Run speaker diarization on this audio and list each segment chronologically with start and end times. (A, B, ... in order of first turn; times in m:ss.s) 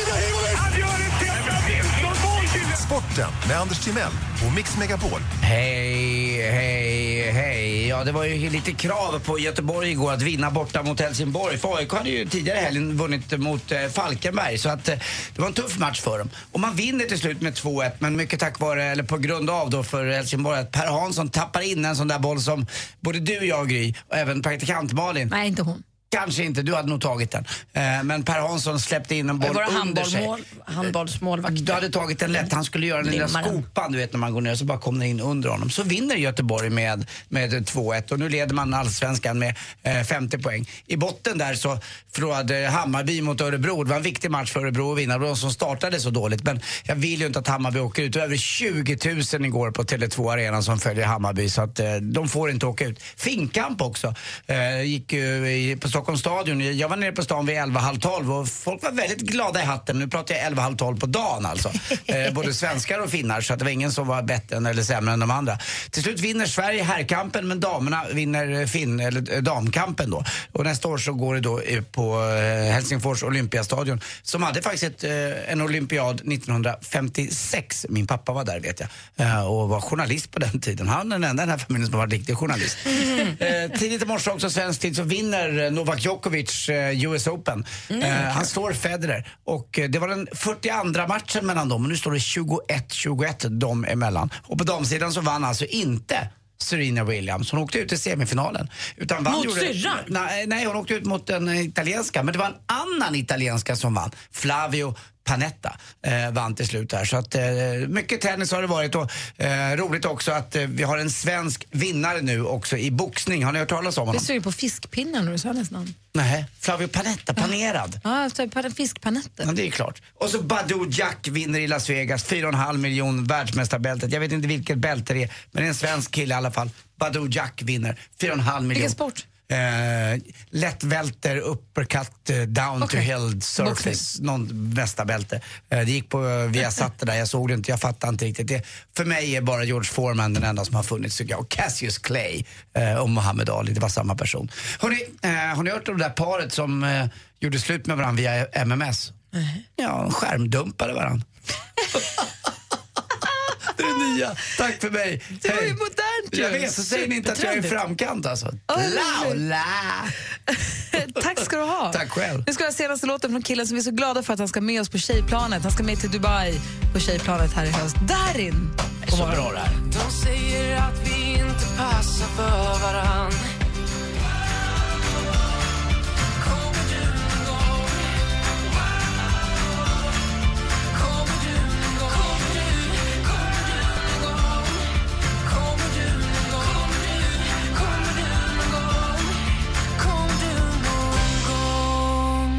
0:02.3-0:05.3 A
0:05.4-0:25.3 B
0:25.3-0:25.8 C
0:26.1-0:30.9 B
0:29.4-0:32.5 D
0:31.5-1:54.3 B
0:33.0-0:33.6 D
1:27.9-1:28.5 D
1:39.2-1:40.1 D
1:54.1-1:55.9 C
1:56.1-1:58.0 B
1:58.0-1:59.5 C
1:59.4-2:29.2 B
2:08.7-2:09.2 C
2:12.8-2:13.1 C
2:13.6-2:14.0 C
2:29.3-2:29.6 D
2:29.8-2:31.2 B
2:31.9-2:32.2 B
2:33.7-2:35.8 B
2:35.4-2:36.9 C
2:36.3-2:40.1 B
2:37.1-2:37.8 D
2:38.7-2:39.4 C
2:40.5-2:48.8 C
2:41.9-2:42.4 B
2:49.1-2:49.8 B
2:49.8-2:53.4 E
2:56.4-2:58.1 E
3:00.9-3:04.9 E
3:05.4-3:09.4 E
3:09.9-3:12.4 E